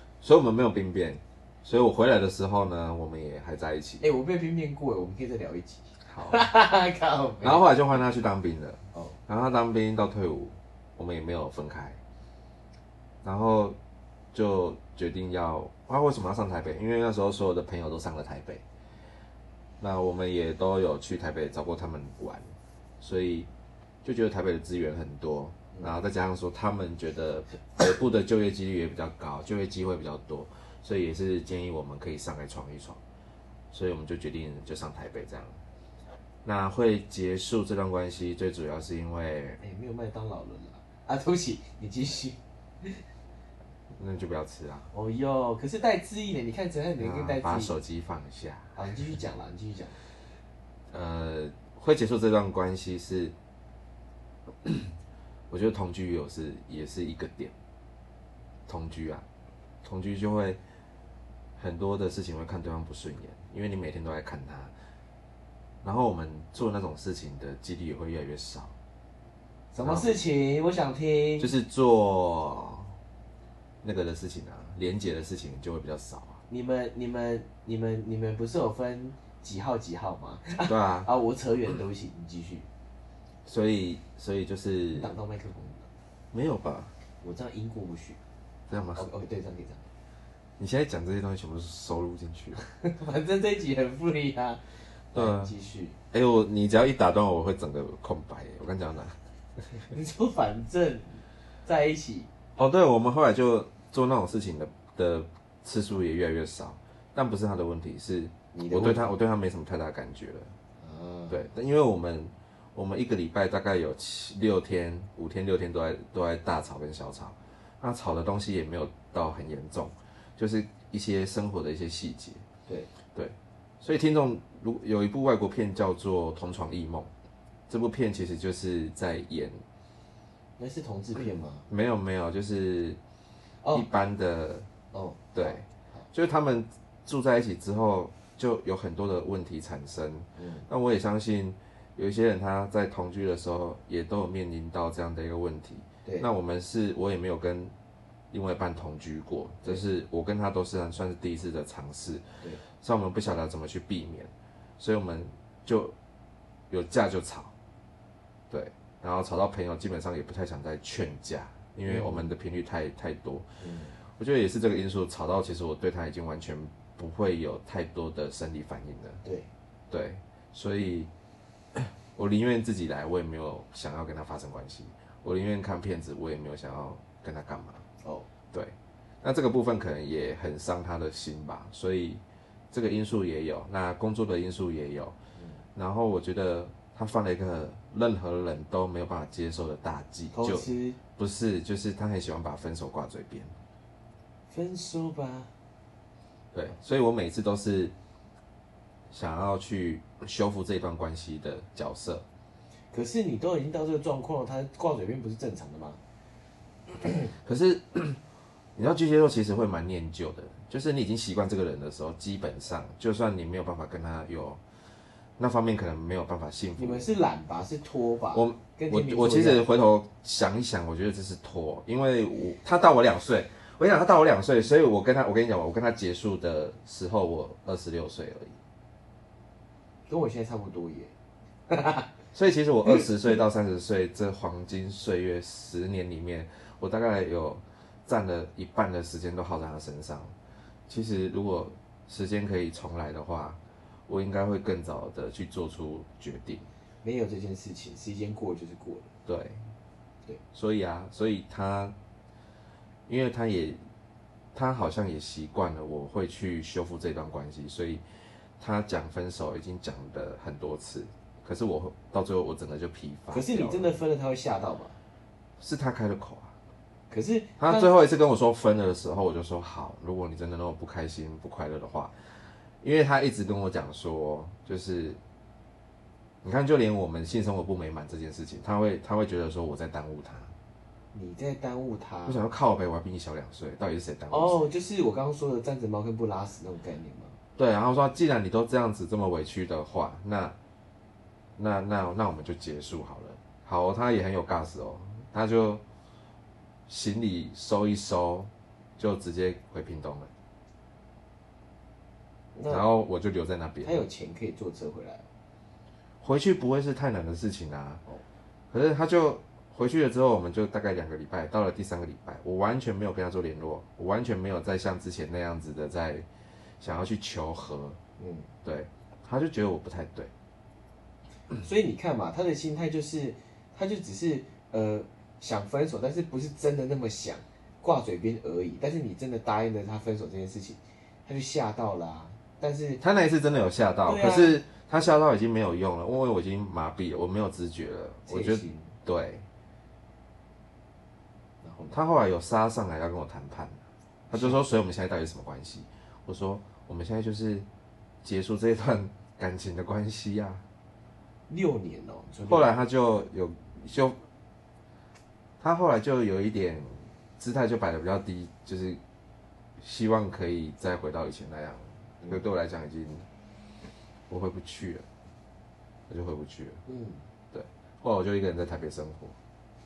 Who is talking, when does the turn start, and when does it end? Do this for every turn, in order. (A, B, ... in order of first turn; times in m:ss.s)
0:00.2-0:04.0 A
0:04.0-0:07.7 B
0:06.0-0:06.5 A
0:07.4-0:12.0 A
0:13.2-0:13.8 A
0:14.3-0:18.6 A
0:19.8-0:22.4 A
0:23.0-0:23.5 A
0:24.0-0:33.0 A
0:33.7-0:35.6 A
0:36.4-0:39.6 A
0:39.6-0:43.0 B
0:43.9-0:44.9 A
0:44.9-0:47.7 B
0:47.0-0:48.8 A
0:48.7-0:50.0 B
0:50.9-0:53.3 A
0:54.6-0:54.9 A
0:55.5-0:57.5 A
0:58.7-0:59.2 A
0:59.8-1:00.6 A
1:01.6-1:04.7 A
1:05.8-1:08.7 A
1:09.7-1:11.5 B
1:09.8-1:10.1 A
1:11.4-1:13.0 A
1:13.8-1:16.4 A
1:16.5-1:22.7 B
1:20.6-1:21.1 A
1:23.4-1:25.1 A
1:24.9-1:25.9 B
1:26.3-1:26.9 A
1:27.2-1:28.2 B
1:28.7-1:29.0 A
1:29.0-1:29.9 B
1:30.6-1:32.6 A
1:32.6-1:36.0 B
1:35.1-1:35.5 A
1:36.1-1:39.2 A
1:39.8-1:42.3 B
1:42.6-1:50.5 A
1:48.5-1:49.1 B
1:50.8-1:51.4 B
1:51.3-2:02.4 A
2:03.1-2:07.1 A
2:07.7-2:09.6 A
2:10.6-2:11.6 B
2:11.7-2:13.0 A
2:13.7-2:14.7 A
2:14.9-2:16.0 B
2:15.3-2:27.7 A
2:20.4-2:20.6 B
2:28.3-2:35.9 A
2:36.7-2:37.5 A
2:38.5-2:43.5 A
2:41.8-2:42.3 B
2:43.6-2:44.0 B
2:44.2-2:49.2 A
2:49.2-2:49.5 B
2:49.9-2:51.1 A
2:51.7-2:57.8 A
2:58.0-2:58.3 B
2:58.5-3:05.2 A
3:05.4-3:05.6 B
3:05.7-3:13.5 A
3:10.3-3:11.0 B
3:14.5-3:15.5 B
3:16.5-3:17.9 A
3:19.1-3:22.2 A
3:22.9-3:26.0 B
3:27.3-3:28.2 A
3:28.8-3:34.6 A
3:35.4-3:37.1 A
3:36.8-3:39.6 B
3:38.3-3:48.6 A
3:50.1-3:51.1 B
3:51.7-3:52.1 B
3:52.3-4:00.3 A
4:00.9-4:06.7 A
4:07.0-4:09.1 B
4:09.2-4:09.7 A
4:10.5-4:11.9 A
4:13.1-4:13.9 A
4:14.5-4:18.0 A
4:18.6-4:24.0 A
4:23.3-4:25.0 B
4:25.6-4:26.5 A
4:27.1-4:27.9 B
4:27.6-4:32.1 A
4:32.8-4:35.2 A
4:36.4-4:40.5 A
4:41.1-4:42.4 B
4:42.2-4:44.6 A
4:44.3-4:47.4 B
4:47.6-4:50.6 A
4:51.6-4:55.8 A
4:56.9-5:00.3 A
5:02.5-5:02.8 B
5:02.6-5:04.0 A
5:03.8-5:05.2 B
5:06.2-5:08.0 A
5:08.7-5:16.3 A
5:16.8-5:18.0 A
5:18.2-5:18.5 B
5:18.6-5:20.3 A
5:21.6-5:33.0 B
5:33.0-5:39.4 A
5:34.0-5:34.6 B
5:38.3-5:38.9 B
5:41.6-5:42.0 B
5:41.9-5:47.7 A
5:44.3-5:44.6 B
5:48.2-5:50.6 A
5:51.5-5:52.7 B
5:52.4-5:54.2 A
5:55.6-5:59.0 A
5:59.8-6:03.2 A
6:04.3-6:05.0 A
6:06.1-6:06.8 A
6:06.9-6:07.2 B
6:07.5-6:09.4 A